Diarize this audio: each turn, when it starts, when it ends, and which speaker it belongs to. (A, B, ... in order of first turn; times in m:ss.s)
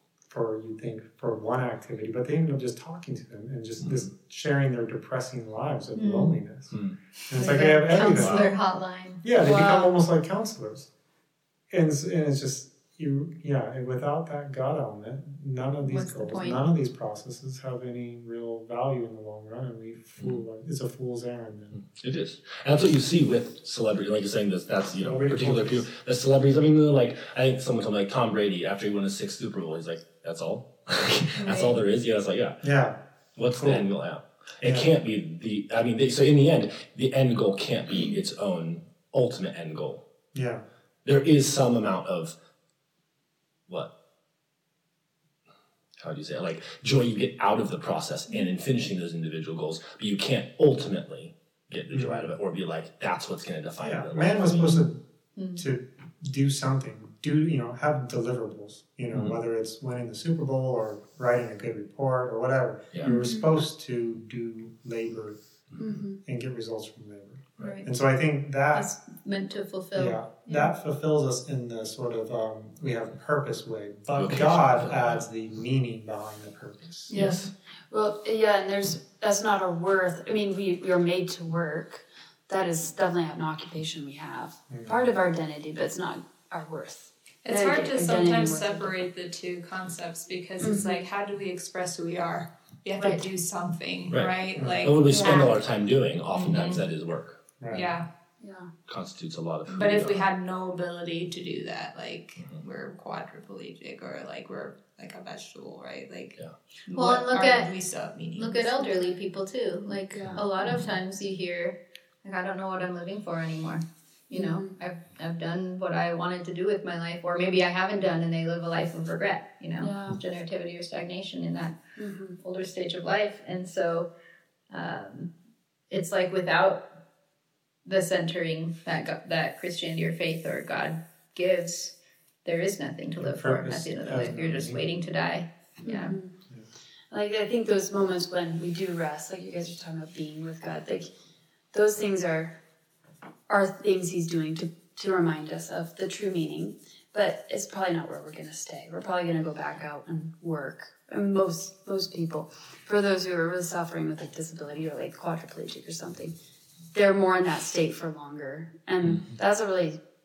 0:00.3-0:08.5 A
0:03.8-0:04.1 B
0:06.0-0:06.4 C
0:07.3-0:10.0 C
0:09.2-0:10.9 A
0:11.7-0:21.8 A
0:15.8-0:16.6 C
0:21.8-0:32.6 B
0:25.0-0:25.9 A
0:31.4-0:31.8 C
0:32.6-0:33.0 A
0:33.4-0:40.0 B
0:33.5-0:33.9 A
0:34.6-0:34.9 A
0:40.3-0:40.6 A
0:41.0-0:42.4 B
0:46.0-0:54.8 B
0:51.9-0:52.3 A
0:53.8-0:55.0 A
0:55.4-0:55.6 C
0:55.6-1:05.4 A
1:03.0-1:03.5 D
1:05.8-1:06.2 D
1:06.2-1:08.9 A
1:07.6-1:07.9 C
1:08.7-1:10.7 C
1:10.0-1:17.2 A
1:14.2-1:15.2 B
1:17.1-1:17.5 B
1:17.1-1:28.9 D
1:24.7-1:25.0 A
1:27.4-1:35.6 E
1:30.6-1:31.0 D
1:33.0-1:33.2 C
1:34.1-1:37.4 B
1:34.6-1:34.9 A
1:36.3-1:36.8 E
1:37.6-1:37.9 A
1:37.7-1:38.1 E
1:38.4-1:38.7 D
1:38.9-1:40.3 B
1:39.7-1:49.0 E
1:46.9-1:47.7 C
1:48.4-2:01.8 C
1:50.1-1:50.4 D
1:54.3-1:54.7 D
1:59.8-2:00.2 D
2:02.0-2:02.4 D
2:02.4-2:04.1 C
2:04.7-2:05.3 C
2:05.9-2:06.9 C
2:07.8-2:16.2 C
2:13.2-2:14.8 A
2:15.8-2:16.3 D
2:17.1-2:21.1 D
2:21.7-2:22.6 D
2:23.5-2:36.4 D
2:36.9-2:40.0 D